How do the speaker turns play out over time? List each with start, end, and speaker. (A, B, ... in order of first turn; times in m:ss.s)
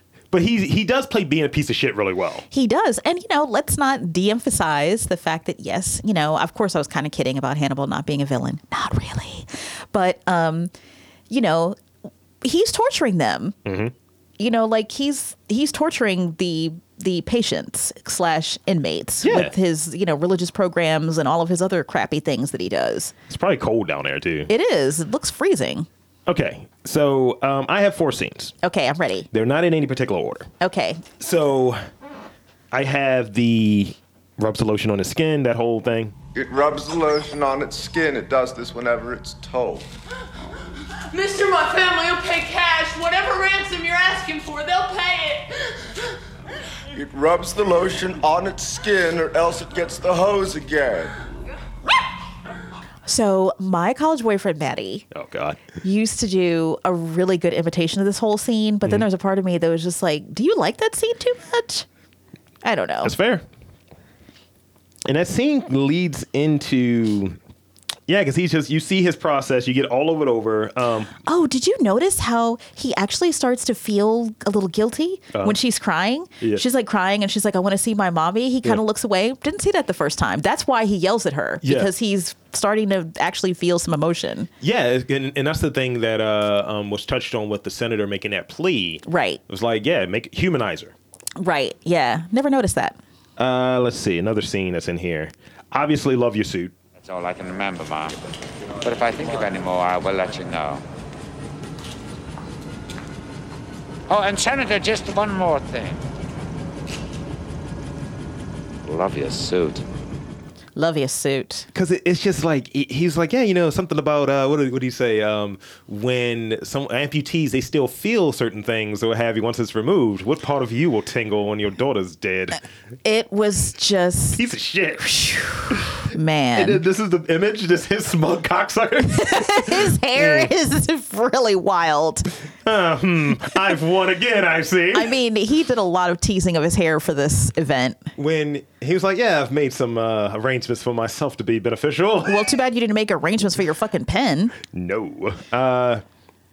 0:00.3-0:02.4 A
0:02.5-0:10.7 B
0:11.3-0:11.8 B
0:12.4-0:13.6 B
0:13.6-0:13.9 A
0:14.4-0:23.1 B
0:19.2-0:19.5 A
0:23.3-0:24.5 A
0:24.5-0:25.9 B
0:26.3-0:28.6 A
0:28.6-0:29.3 B
0:29.3-0:30.5 A
0:30.6-0:31.0 B
0:31.2-0:31.8 A
0:32.7-0:36.1 A
0:36.3-0:39.9 C
0:41.1-0:45.5 D
0:46.9-0:51.1 C
0:53.0-0:55.0 B
0:55.1-0:55.6 A
0:55.8-1:01.8 B
1:02.6-1:03.1 B
1:03.0-1:03.4 A
1:05.0-1:07.4 A
1:08.1-1:11.1 A
1:11.2-1:24.5 B
1:21.6-1:21.9 A
1:24.6-1:30.9 A
1:29.0-1:29.4 B
1:31.4-1:33.0 B
1:33.4-1:36.7 A
1:36.9-1:38.2 E
1:38.8-1:40.8 E
1:44.1-1:46.0 E
1:48.8-1:49.8 E
1:50.8-1:51.7 B
1:51.7-2:02.6 A
2:03.0-2:04.4 B
2:04.3-2:05.1 A
2:05.0-2:06.8 B
2:06.5-2:10.5 A
2:09.0-2:12.3 B
2:12.6-2:15.1 A
2:14.9-2:18.1 B
2:18.2-2:22.4 A
2:22.2-2:24.5 B
2:24.6-2:26.0 A